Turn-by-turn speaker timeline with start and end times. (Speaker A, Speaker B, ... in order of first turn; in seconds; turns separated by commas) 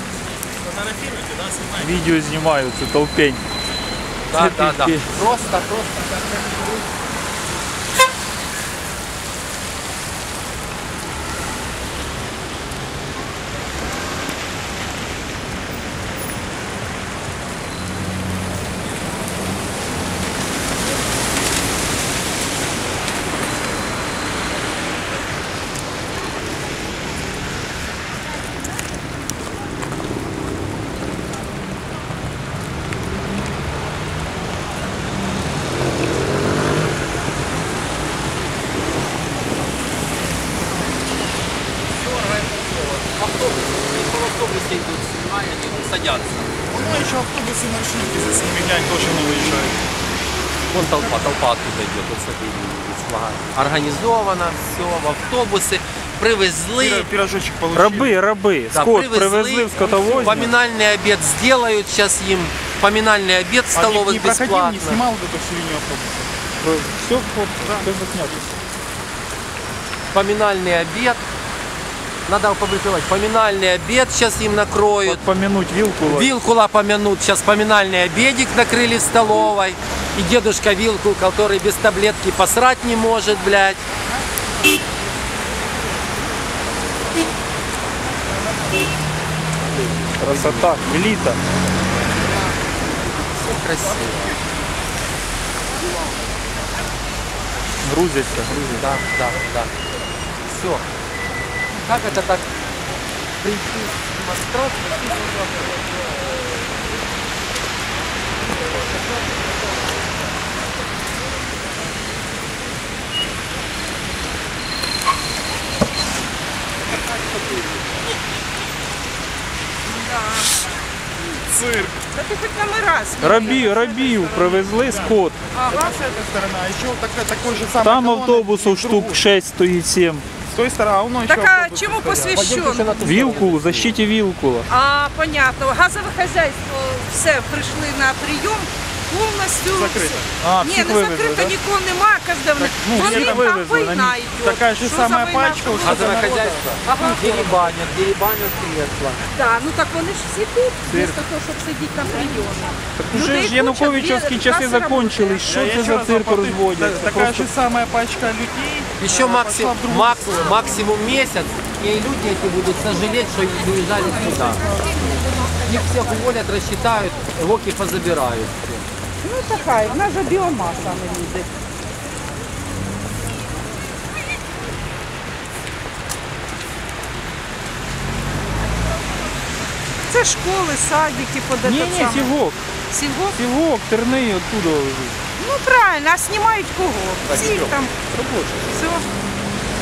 Speaker A: 0.9-1.6, Speaker B: 1.8-3.4, Speaker A: 4.3-6.5, Speaker B: 4.3-5.1, Speaker A: 41.9-46.5, Speaker C: 46.7-49.8, Speaker A: 50.7-57.1, Speaker C: 56.8-58.2, Speaker B: 57.7-60.5, Speaker A: 58.7-65.0, Speaker C: 59.8-60.4, Speaker C: 63.7-66.3, Speaker B: 66.6-68.4, Speaker C: 67.6-68.4, Speaker A: 70.1-71.2, Speaker A: 72.2-75.2, Speaker B: 75.0-76.3, Speaker A: 76.0-83.8, Speaker A: 89.8-90.8, Speaker B: 90.2-91.4, Speaker A: 93.3-94.3, Speaker B: 97.8-98.6, Speaker A: 98.5-99.7, Speaker A: 100.4-100.8, Speaker A: 101.8-102.5, Speaker A: 103.4-105.6, Speaker A: 117.1-117.7, Speaker D: 119.9-120.6, Speaker C: 121.5-122.0, Speaker D: 122.1-123.6, Speaker B: 123.2-125.4, Speaker C: 123.3-125.2, Speaker D: 125.5-125.9, Speaker C: 125.7-129.2, Speaker B: 127.8-130.2, Speaker C: 130.4-132.5, Speaker D: 131.2-133.0, Speaker A: 132.3-133.9, Speaker B: 133.0-134.7, Speaker D: 134.7-146.2, Speaker C: 139.7-140.3, Speaker B: 140.4-141.6, Speaker C: 142.6-143.5, Speaker B: 142.9-144.2, Speaker C: 144.4-146.8, Speaker A: 145.8-149.2, Speaker D: 146.8-147.7, Speaker D: 149.3-155.4, Speaker B: 150.9-151.2, Speaker B: 153.0-157.5, Speaker C: 155.4-160.9, Speaker A: 159.0-164.7, Speaker D: 164.5-165.1, Speaker A: 165.6-168.9, Speaker D: 169.2-171.5, Speaker D: 180.1-182.3, Speaker B: 181.6-182.6, Speaker D: 182.9-183.4, Speaker B: 183.3-185.2, Speaker D: 185.4-187.9, Speaker B: 187.3-188.7, Speaker D: 188.7-189.0